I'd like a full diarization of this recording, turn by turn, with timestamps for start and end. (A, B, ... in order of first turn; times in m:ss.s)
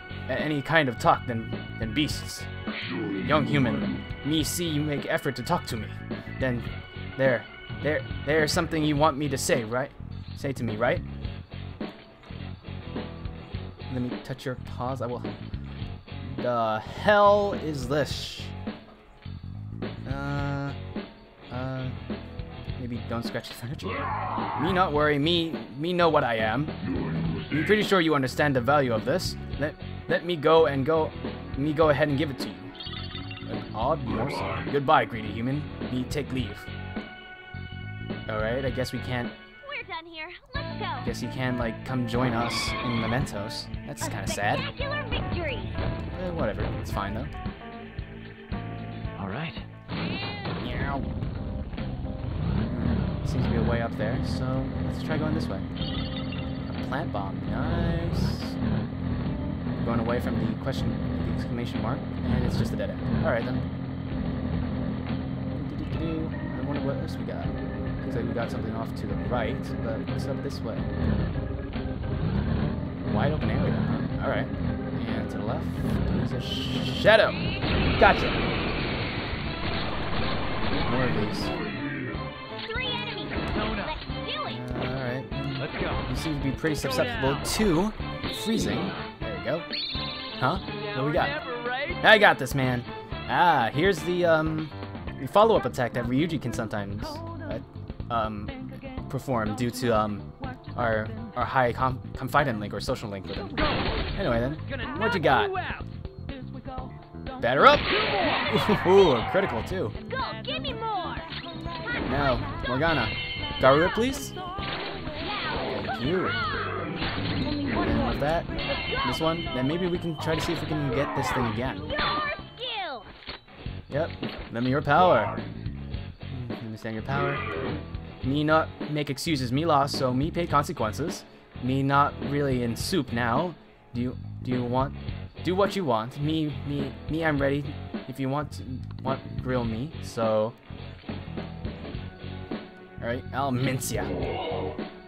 0:00.3-0:02.5 A
0:03.2-0:11.1 A
0:13.9-0:15.4 A
0:16.2-0:18.6 A
0:20.0-0:20.8 A
0:21.5-0:22.0 A
0:22.8-0:26.8 A
0:27.5-0:32.7 A
0:33.5-0:36.7 A
0:38.3-0:39.4 A
0:39.6-0:41.1 B
0:41.0-0:44.7 A
0:44.0-0:45.9 B
0:46.1-0:47.3 A
0:49.2-0:49.6 C
0:50.6-0:51.1 A
0:52.7-0:55.7 A
0:56.7-0:58.6 A
0:59.8-1:03.6 A
1:05.5-1:10.9 A
1:13.0-1:17.4 A
1:18.0-1:18.4 A
1:20.8-1:21.6 A
1:22.5-1:24.6 B
1:23.6-1:23.9 C
1:24.5-1:29.7 A
1:25.7-1:26.0 C
1:30.4-1:31.4 A
1:30.9-1:32.0 C
1:32.0-1:45.5 A
1:44.7-1:45.9 C
1:47.4-1:50.0 A
1:50.0-1:51.3 B
1:52.1-1:54.4 A
1:55.2-1:55.8 B
1:55.7-1:56.4 A
1:57.4-1:57.8 B
1:57.8-1:58.5 A
1:58.7-1:59.0 B
1:59.0-2:01.9 A
2:01.9-2:03.1 B
2:03.9-2:05.4 A
2:06.3-2:07.4 A
2:08.2-2:20.6 A
2:23.0-2:24.1 A